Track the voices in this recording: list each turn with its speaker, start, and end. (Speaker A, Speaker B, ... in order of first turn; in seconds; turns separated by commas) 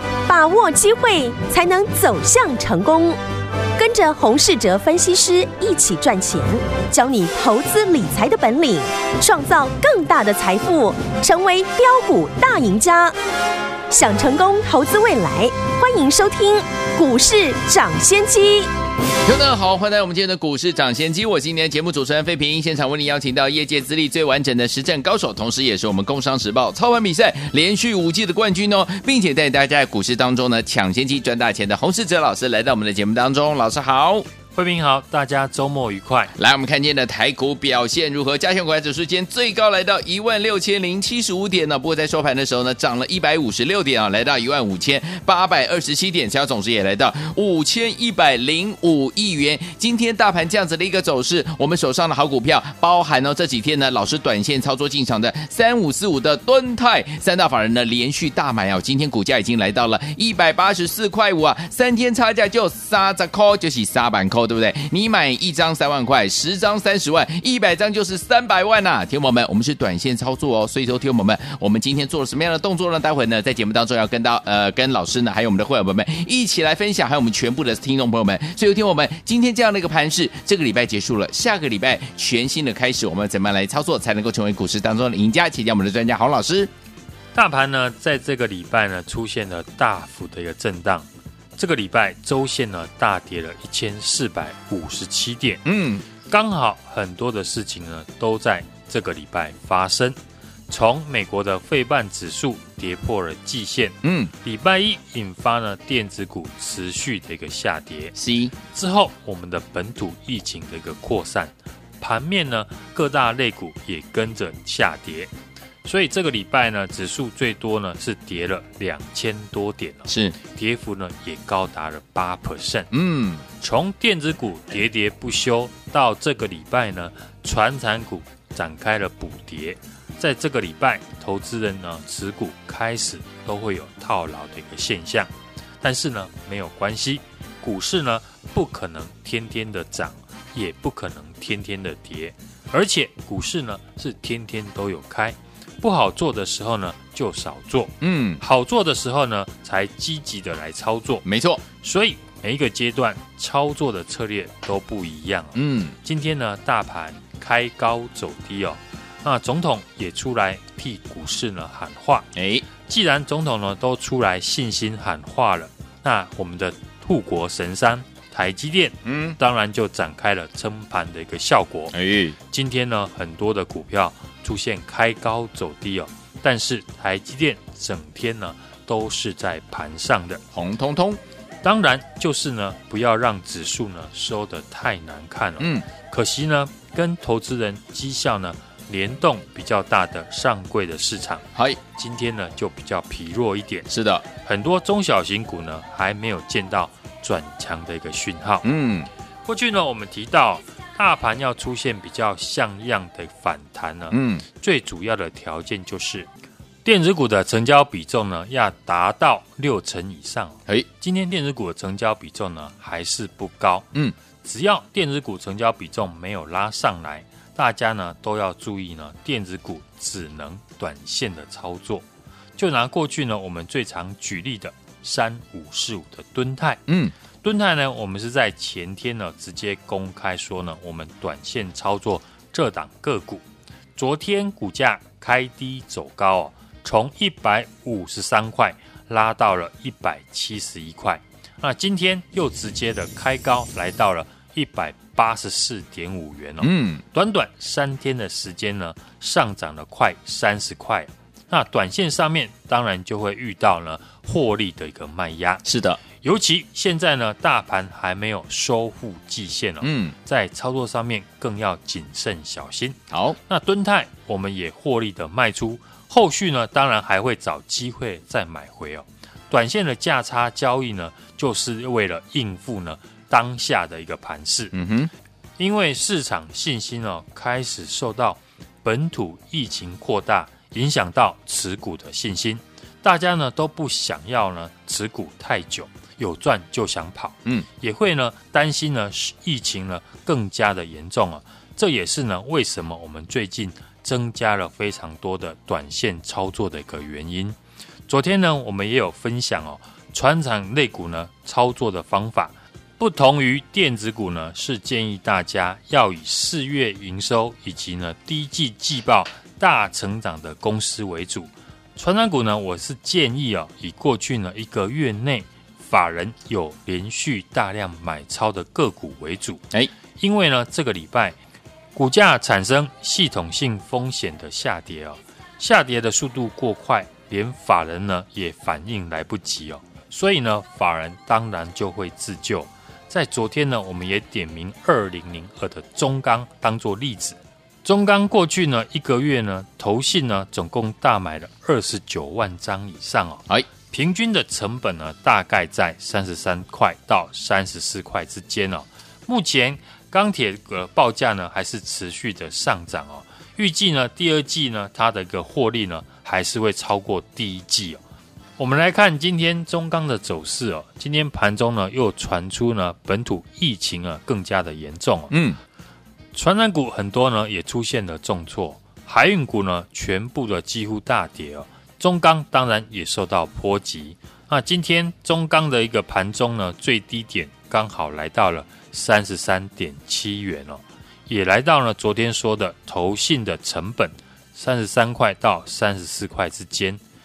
Speaker A: 0.3-3.2, Speaker A: 3.8-13.2, Speaker A: 13.9-18.7, Speaker B: 19.2-34.3, Speaker C: 34.5-36.3, Speaker B: 36.4-86.7, Speaker C: 87.3-91.1, Speaker C: 91.6-95.6, Speaker B: 95.7-96.0, Speaker C: 96.3-100.2, Speaker C: 100.7-108.2, Speaker B: 104.0-104.3, Speaker B: 108.2-108.5, Speaker C: 108.7-115.3, Speaker C: 115.8-122.9, Speaker B: 120.1-120.4, Speaker B: 122.9-123.5, Speaker C: 123.6-135.3, Speaker C: 135.8-151.2, Speaker B: 148.0-148.4, Speaker B: 151.2-151.6, Speaker C: 151.8-162.3, Speaker B: 155.6-156.0, Speaker B: 162.3-162.7, Speaker C: 162.9-172.0, Speaker B: 169.1-169.4, Speaker B: 171.9-172.4, Speaker C: 172.5-180.4, Speaker B: 180.5-181.2, Speaker C: 181.6-198.7, Speaker B: 185.6-185.9, Speaker B: 193.9-194.3, Speaker B: 198.6-199.1, Speaker C: 199.4-206.3, Speaker B: 204.1-204.4, Speaker C: 206.8-213.9, Speaker C: 214.4-222.0, Speaker C: 222.6-226.8, Speaker B: 226.9-227.1, Speaker C: 227.4-233.4, Speaker C: 234.0-255.7, Speaker B: 246.6-247.0, Speaker B: 255.7-256.0, Speaker C: 256.2-274.7, Speaker B: 259.8-260.1, Speaker B: 263.1-263.4, Speaker B: 274.7-275.1, Speaker C: 275.6-297.6, Speaker C: 298.1-319.6, Speaker C: 320.2-321.4, Speaker C: 321.9-358.0, Speaker C: 358.6-365.3, Speaker B: 365.3-365.6, Speaker C: 366.3-387.0